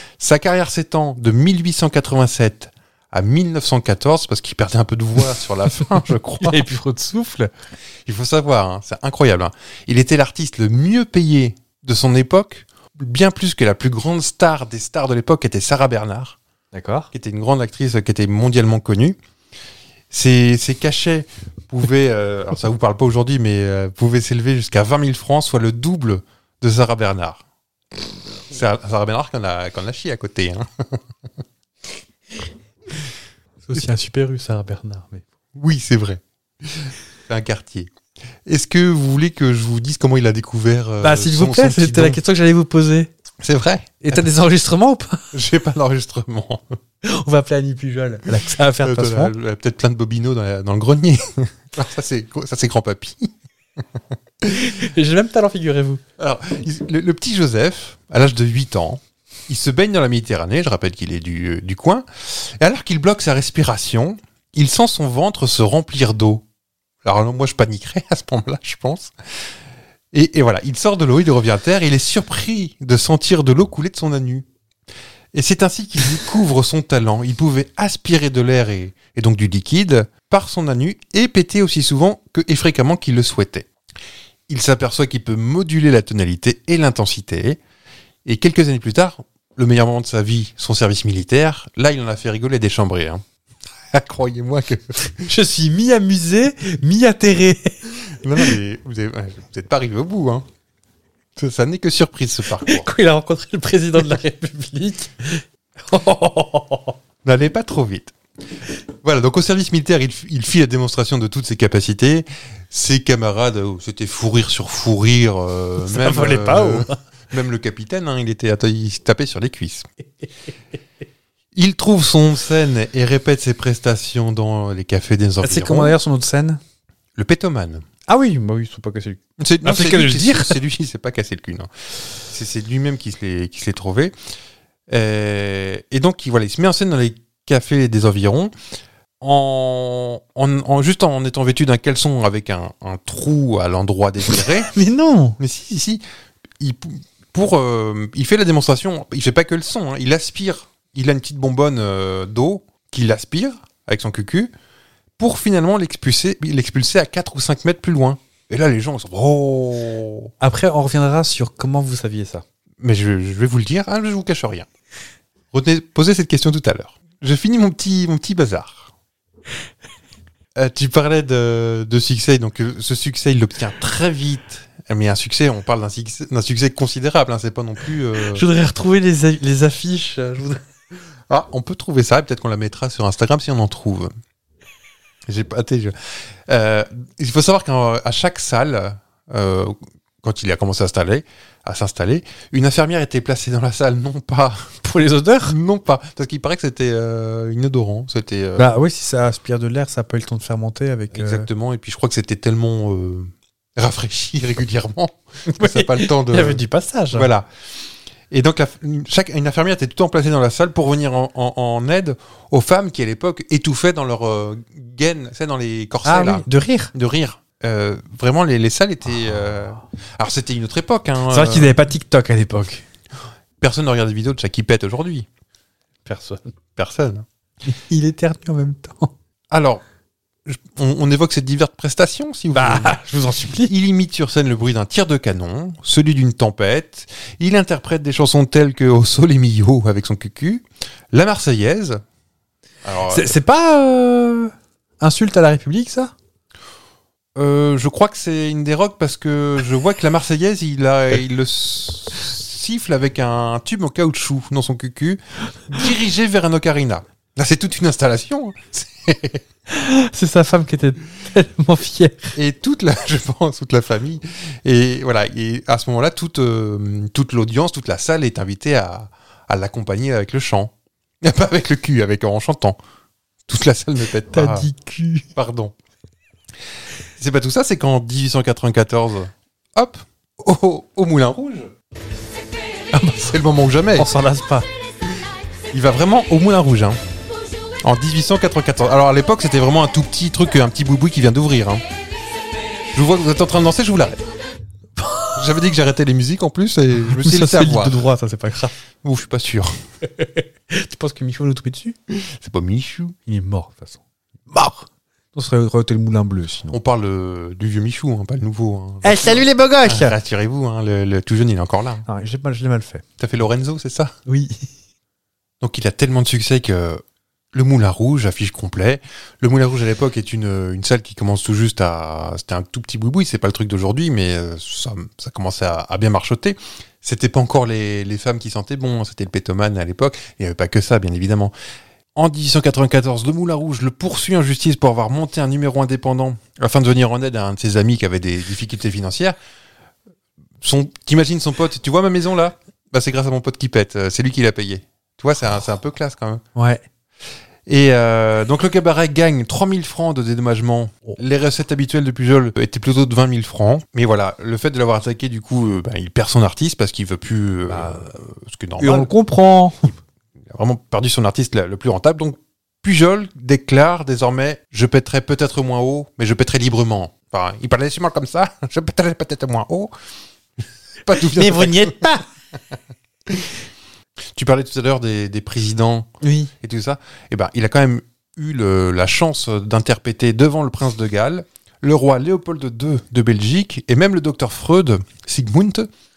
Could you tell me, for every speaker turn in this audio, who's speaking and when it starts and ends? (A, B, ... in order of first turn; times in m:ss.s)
0:00.2-0:06.6 A
0:06.4-0:07.5 B
0:08.1-0:16.4 A
0:16.7-0:17.1 B
0:17.1-0:19.2 A
0:20.1-0:27.4 A
0:28.5-0:31.0 A
0:33.6-0:35.3 B
0:35.6-0:37.9 A
0:38.5-0:42.2 A
0:41.0-0:43.1 B
0:43.4-0:44.2 A
0:44.0-0:45.3 B
0:45.3-0:46.6 A
0:47.0-0:49.3 B
0:48.8-0:53.3 A
0:54.4-0:56.0 B
0:56.2-1:06.4 A
1:07.0-1:09.1 A
1:10.1-1:14.5 A
1:15.3-1:23.7 A
1:24.5-1:27.6 A
1:28.2-1:33.2 A
1:33.9-1:35.3 A
1:35.2-1:37.8 B
1:38.0-1:40.4 A
1:41.4-1:42.9 A
1:42.6-1:47.0 B
1:47.2-1:48.1 A
1:49.0-1:59.9 A
1:55.8-1:57.0 B
2:01.6-2:06.0 A
2:05.4-2:06.6 B
2:07.2-2:07.8 A
2:08.1-2:10.6 B
2:09.4-2:11.7 A
2:12.2-2:14.1 A
2:14.9-2:18.5 A
2:19.2-2:24.7 A
2:24.3-2:25.4 B
2:25.4-2:26.0 A
2:26.6-2:34.5 A
2:35.2-2:40.3 A
2:40.4-2:42.4 B
2:42.8-2:44.7 A
2:45.5-2:48.9 A
2:50.6-2:58.4 A
2:58.2-3:00.6 B
3:01.3-3:04.1 A
3:05.3-3:14.8 A
3:14.8-3:15.6 B
3:15.5-3:18.7 A
3:18.6-3:21.5 B
3:21.1-3:26.6 A
3:25.5-3:27.3 B
3:27.1-3:27.5 A
3:28.3-3:41.7 A
3:36.0-3:36.9 B
3:41.3-3:42.8 B
3:43.6-3:45.3 A
3:46.0-3:46.4 B
3:46.8-3:47.2 A
3:47.6-3:49.1 B
3:49.5-3:49.8 A
3:50.5-3:53.0 A
3:52.5-3:53.7 B
3:53.6-4:02.0 A
4:02.8-4:03.3 A
4:03.1-4:06.1 B
4:07.4-4:19.4 A
4:19.7-4:22.4 B
4:22.4-4:32.8 A
4:33.5-4:34.7 A
4:34.3-4:35.3 B
4:35.4-4:35.8 A
4:37.2-4:41.7 A
4:42.9-4:43.4 B
4:43.2-4:44.1 A
4:44.0-4:44.7 B
4:45.7-4:47.0 A
4:47.8-4:51.8 A
4:52.9-4:54.2 A
4:55.0-4:55.3 B
4:55.4-4:58.0 A
4:57.0-4:58.8 B
4:59.0-4:59.7 A
5:00.0-5:02.0 B
5:02.1-5:03.2 A
5:03.3-5:06.8 B
5:06.7-5:12.1 A
5:09.0-5:10.2 B
5:12.1-5:13.0 B
5:13.2-5:14.1 A
5:14.3-5:14.7 B
5:15.6-5:17.0 A
5:17.5-5:31.5 A
5:32.2-5:39.4 A
5:40.6-5:46.4 A
5:46.6-5:46.8 B
5:47.7-5:59.1 A
5:57.7-5:58.1 B
5:58.8-5:59.9 B
6:00.5-6:09.9 A
6:11.0-6:12.1 A
6:11.2-6:12.2 B
6:14.3-6:16.1 A
6:16.2-6:16.5 B
6:16.6-6:25.9 A